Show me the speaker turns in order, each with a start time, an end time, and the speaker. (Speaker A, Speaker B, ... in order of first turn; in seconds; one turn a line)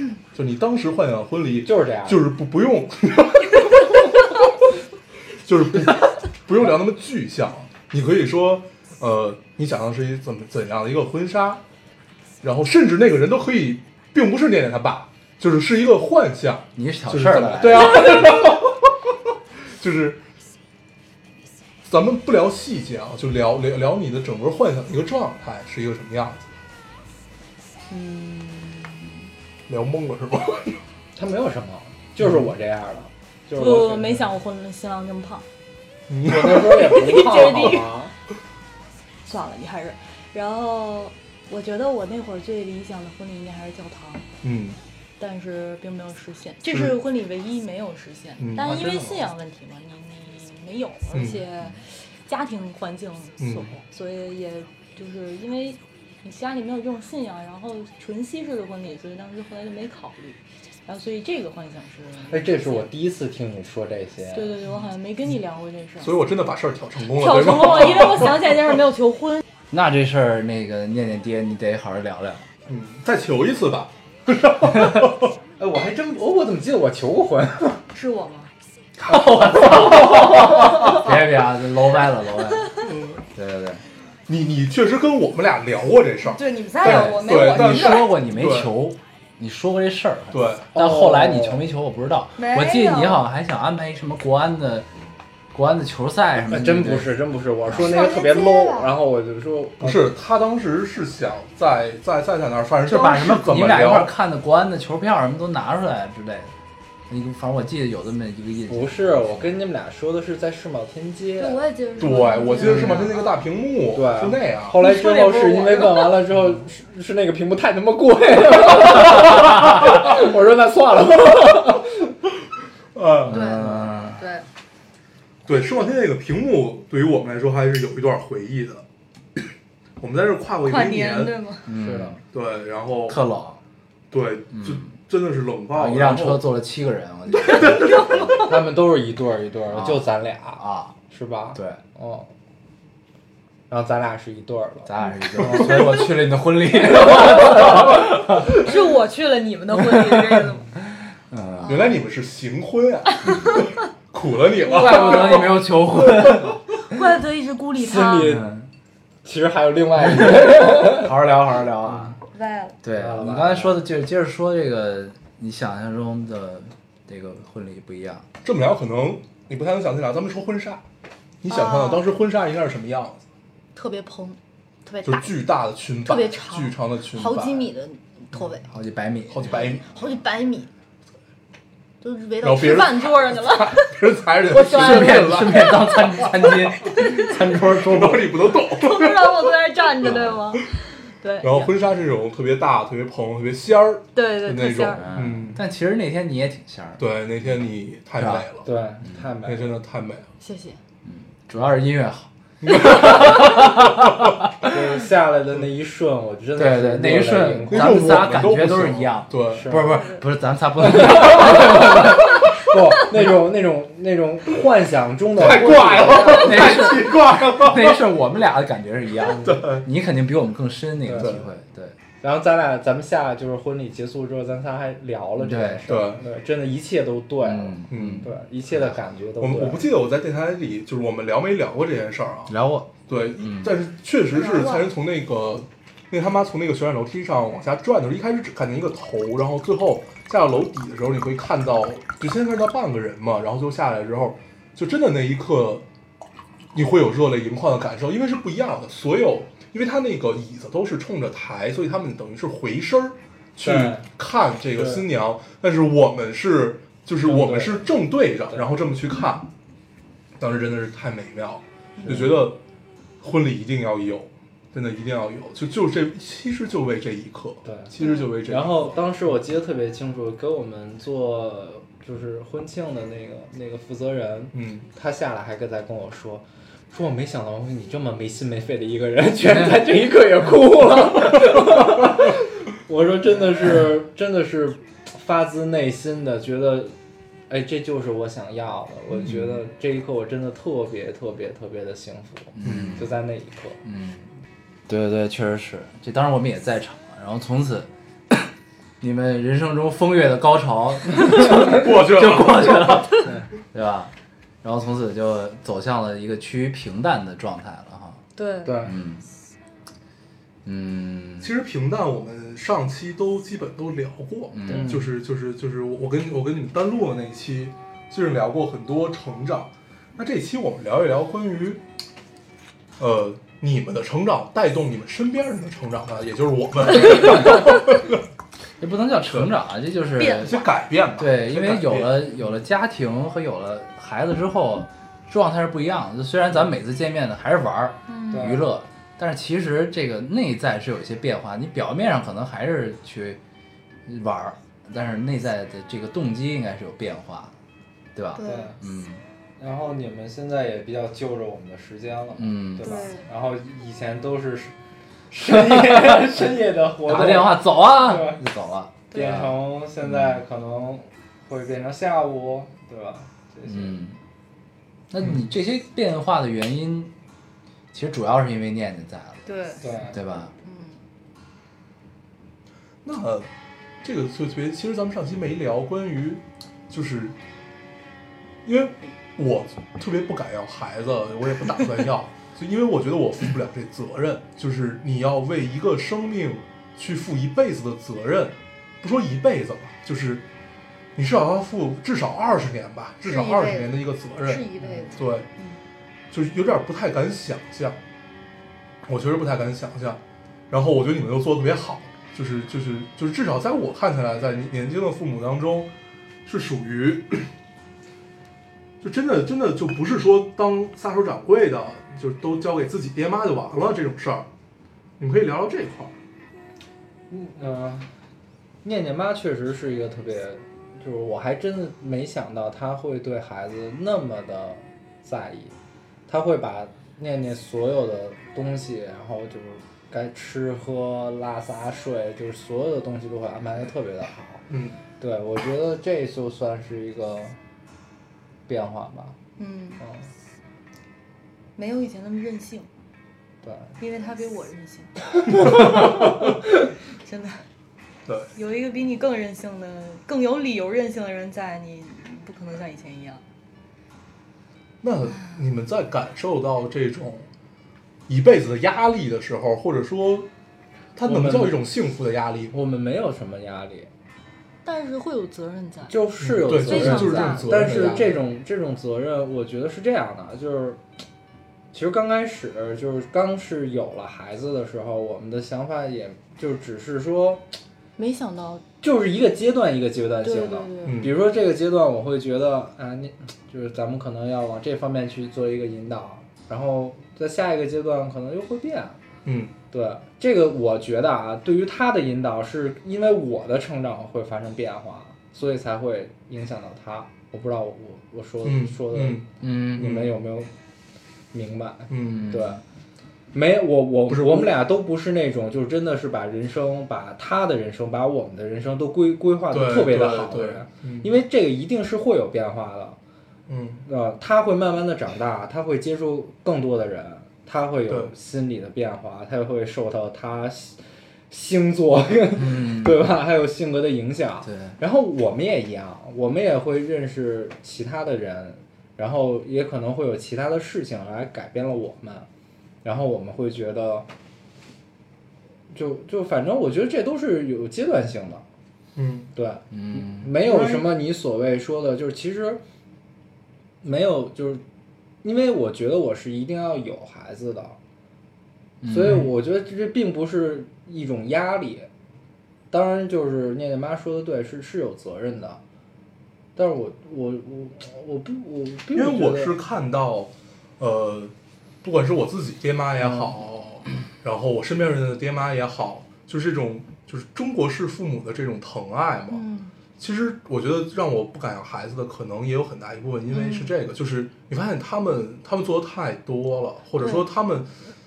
Speaker A: 0.3-4.3
Speaker B: 1.6-2.3
Speaker A: 5.4-11.6
Speaker A: 12.4-18.9
Speaker C: 16.8-18.4
Speaker A: 19.8-20.2
Speaker A: 21.9-26.5
Speaker D: 27.9-29.3
Speaker A: 29.7-30.8
Speaker B: 31.1-34.2
Speaker D: 33.5-35.4
Speaker A: 36.1-36.8
Speaker B: 36.2-38.1
Speaker D: 36.8-37.9
Speaker D: 39.2-44.2
Speaker A: 44.4-44.8
Speaker D: 45.2-62.9
Speaker A: 46.7-47.0
Speaker A: 48.4-49.1
Speaker A: 51.1-51.4
Speaker A: 53.4-53.7
Speaker B: 62.3-64.5
Speaker D: 64.3-66.1
Speaker A: 66.0-68.5
Speaker D: 67.1-69.4
Speaker C: 69.7-72.5
Speaker A: 72.7-75.3
Speaker B: 75.6-77.8
Speaker D: 77.9-78.5
Speaker C: 79.0-83.8
Speaker B: 79.9-80.2
Speaker A: 82.8-83.2
Speaker A: 84.3-88.7
Speaker D: 86.2-88.1
Speaker C: 86.8-94.9
Speaker A: 90.3-90.7
Speaker B: 90.7-91.6
Speaker D: 92.4-93.3
Speaker C: 95.5-97.9
Speaker B: 96.5-100.1
Speaker D: 97.7-98.9
Speaker A: 99.8-104.1
Speaker C: 102.8-106.5
Speaker C: 107.1-109.4
Speaker B: 108.7-111.6
Speaker D: 111.4-113.5
Speaker A: 112.0-114.8
Speaker B: 112.6-113.0
Speaker B: 113.9-122.1
Speaker D: 114.8-116.2
Speaker A: 122.9-123.5
Speaker C: 123.2-124.2
Speaker D: 123.3-124.4
Speaker A: 125.5-128.8
Speaker A: 130.0-131.4
Speaker D: 130.7-131.7
Speaker C: 131.7-132.2
Speaker B: 131.7-132.2
Speaker A: 132.3-133.2
Speaker C: 133.1-133.6
Speaker A: 134.1-136.4
Speaker C: 134.5-134.9
Speaker C: 135.7-138.4
Speaker D: 137.4-138.5
Speaker A: 137.5-138.1
Speaker B: 138.4-142.3
Speaker C: 139.7-141.0
Speaker C: 141.5-141.8
Speaker B: 143.7-145.9
Speaker C: 144.8-148.6
Speaker A: 145.4-145.8
Speaker D: 148.4-150.7
Speaker C: 150.0-150.4
Speaker C: 151.3-151.9
Speaker D: 151.6-152.0
Speaker A: 151.7-156.6
Speaker C: 153.2-153.6
Speaker D: 153.2-153.7
Speaker D: 154.6-155.6
Speaker C: 154.7-156.6
Speaker D: 156.9-158.4
Speaker B: 157.8-158.5
Speaker C: 158.2-158.7
Speaker B: 159.2-161.1
Speaker C: 160.0-162.2
Speaker D: 162.3-162.8
Speaker C: 162.8-168.2
Speaker B: 162.9-163.8
Speaker A: 168.4-170.8
Speaker A: 171.4-173.2
Speaker D: 171.5-172.1
Speaker D: 173.7-175.3
Speaker A: 175.0-177.7
Speaker D: 176.0-178.7
Speaker C: 178.7-179.7
Speaker A: 179.3-179.9
Speaker D: 179.5-180.7
Speaker D: 182.0-187.5
Speaker A: 182.4-186.5
Speaker C: 184.6-188.3
Speaker A: 187.6-189.6
Speaker D: 188.5-191.7
Speaker C: 190.0-190.4
Speaker A: 191.4-195.6
Speaker D: 194.1-195.1
Speaker C: 194.9-197.6
Speaker A: 197.0-198.7
Speaker C: 198.2-198.5
Speaker B: 198.6-199.8
Speaker A: 199.4-200.3
Speaker D: 200.4-200.8
Speaker C: 201.0-204.3
Speaker A: 202.6-203.7
Speaker B: 204.7-208.3
Speaker C: 206.6-212.4
Speaker A: 207.7-209.8
Speaker B: 209.5-210.0
Speaker D: 209.9-210.2
Speaker B: 210.8-216.8
Speaker A: 215.4-218.0
Speaker C: 216.3-221.9
Speaker A: 219.3-219.9
Speaker B: 221.0-221.4
Speaker B: 222.2-229.8
Speaker C: 225.4-225.9
Speaker A: 225.9-226.2
Speaker C: 227.4-228.3
Speaker A: 227.9-228.3
Speaker A: 229.4-232.6
Speaker C: 232.5-233.8
Speaker A: 233.1-245.8
Speaker D: 234.3-234.9
Speaker A: 246.7-259.5
Speaker B: 253.6-254.1
Speaker B: 254.7-255.0
Speaker B: 257.2-257.9
Speaker A: 260.4-262.6
Speaker B: 262.0-262.4
Speaker A: 263.2-269.0
Speaker B: 267.6-286.9
Speaker D: 268.0-268.3
Speaker A: 274.5-274.9
Speaker B: 287.5-293.8
Speaker C: 289.2-289.6
Speaker C: 292.6-293.1
Speaker A: 292.6-293.0
Speaker C: 293.8-294.3
Speaker C: 294.9-308.2
Speaker A: 301.4-303.2
Speaker D: 308.4-308.7
Speaker B: 308.6-309.0
Speaker C: 308.8-309.2
Speaker C: 310.6-311.5
Speaker A: 311.4-321.8
Speaker C: 314.5-315.0
Speaker B: 314.7-315.1
Speaker A: 323.0-328.2
Speaker C: 328.8-330.6
Speaker D: 330.1-330.7
Speaker A: 330.4-332.4
Speaker C: 331.2-343.4
Speaker D: 338.1-338.6
Speaker B: 338.3-338.6
Speaker C: 344.1-347.5
Speaker C: 348.1-349.2
Speaker D: 348.4-348.7
Speaker B: 348.4-348.8
Speaker B: 349.6-354.7
Speaker C: 352.4-353.0
Speaker D: 352.8-353.2
Speaker B: 355.3-358.4
Speaker C: 355.5-356.4
Speaker C: 357.0-360.4
Speaker D: 359.1-359.5
Speaker B: 359.1-364.0
Speaker C: 363.7-364.2
Speaker C: 365.1-367.1
Speaker C: 367.9-369.5
Speaker D: 369.4-369.8
Speaker B: 369.8-370.2
Speaker C: 370.1-370.5
Speaker D: 370.6-371.0
Speaker A: 373.0-373.5
Speaker A: 374.0-377.4
Speaker A: 378.6-390.4
Speaker A: 391.1-395.5
Speaker D: 393.2-395.8
Speaker A: 396.3-398.0
Speaker A: 399.1-405.9
Speaker A: 406.4-407.5
Speaker A: 409.0-414.5
Speaker A: 415.2-416.1
Speaker B: 417.3-418.1
Speaker B: 418.8-425.7
Speaker B: 426.3-434.7
Speaker A: 434.7-435.0
Speaker B: 435.2-437.6
Speaker B: 438.7-439.4
Speaker D: 439.6-440.0
Speaker B: 440.0-440.3
Speaker D: 441.8-442.9
Speaker B: 443.6-443.9
Speaker D: 444.0-447.6
Speaker A: 445.6-446.4
Speaker A: 448.3-448.5
Speaker D: 448.5-453.4
Speaker A: 455.0-457.5
Speaker A: 458.3-460.5
Speaker A: 461.1-462.7
Speaker B: 461.2-461.8
Speaker B: 462.7-464.1
Speaker D: 464.8-468.3
Speaker B: 466.1-471.0
Speaker A: 466.4-468.4
Speaker B: 471.9-477.7
Speaker D: 478.2-478.8
Speaker B: 479.0-489.2
Speaker D: 480.4-481.3
Speaker A: 481.0-481.4
Speaker A: 489.4-489.7
Speaker B: 489.9-500.7
Speaker A: 498.6-500.3
Speaker C: 499.6-500.2
Speaker B: 501.5-502.8
Speaker A: 502.1-502.6
Speaker C: 502.3-502.7
Speaker B: 503.5-513.2
Speaker A: 504.3-504.7
Speaker A: 509.7-511.3
Speaker A: 513.7-514.0
Speaker B: 514.0-532.5
Speaker A: 518.1-518.3
Speaker C: 522.6-523.2
Speaker C: 524.6-524.9
Speaker B: 533.0-534.3
Speaker B: 535.9-538.6
Speaker A: 539.1-539.5
Speaker B: 539.5-542.8
Speaker C: 539.9-540.5
Speaker A: 540.6-541.1
Speaker B: 544.0-544.8
Speaker B: 545.4-548.0
Speaker C: 549.0-549.5
Speaker B: 549.0-552.1
Speaker B: 552.9-555.8
Speaker B: 556.8-559.8
Speaker A: 559.1-569.6
Speaker D: 569.5-569.9
Speaker A: 570.2-577.9
Speaker D: 573.5-573.9
Speaker D: 577.2-577.5